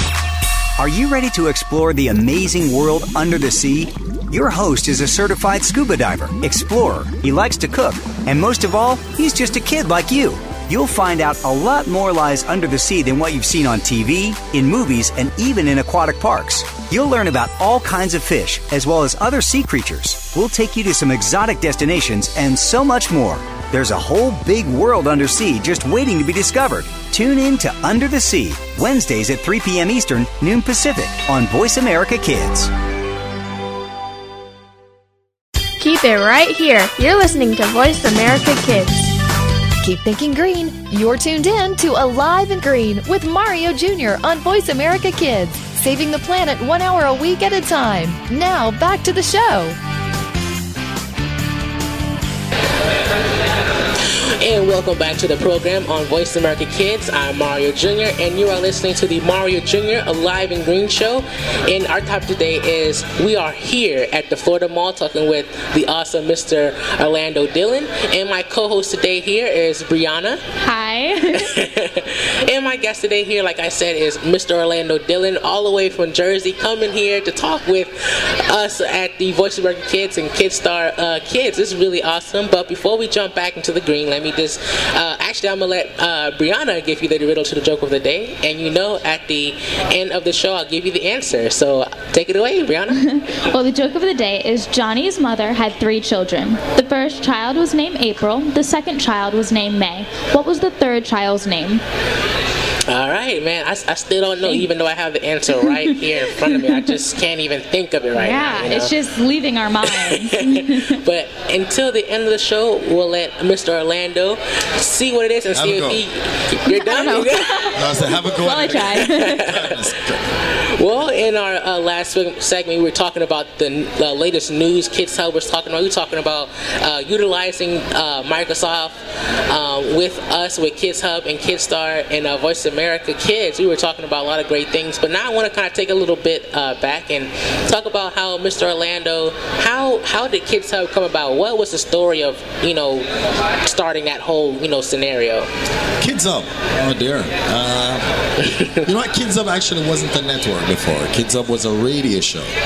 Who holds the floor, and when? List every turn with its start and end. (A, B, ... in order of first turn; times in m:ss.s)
0:00.8-0:32.7 A
0:35.8-0:39.1 B
0:39.8-0:49.8 C
0:54.0-1:10.4 D
1:10.6-1:11.5 E
1:11.3-1:33.0 D
1:33.0-1:41.8 E
1:42.9-1:48.9 D
1:45.7-1:46.9 E
1:48.1-1:51.0 E
1:49.9-1:57.9 D
1:55.5-1:56.0 F
1:56.7-1:59.4 E
1:57.7-2:00.4 F
1:58.9-1:59.8 D
2:00.6-2:23.1 D
2:23.6-2:25.5 D
2:26.0-2:28.1 F
2:28.4-2:28.8 D
2:28.8-2:32.5 F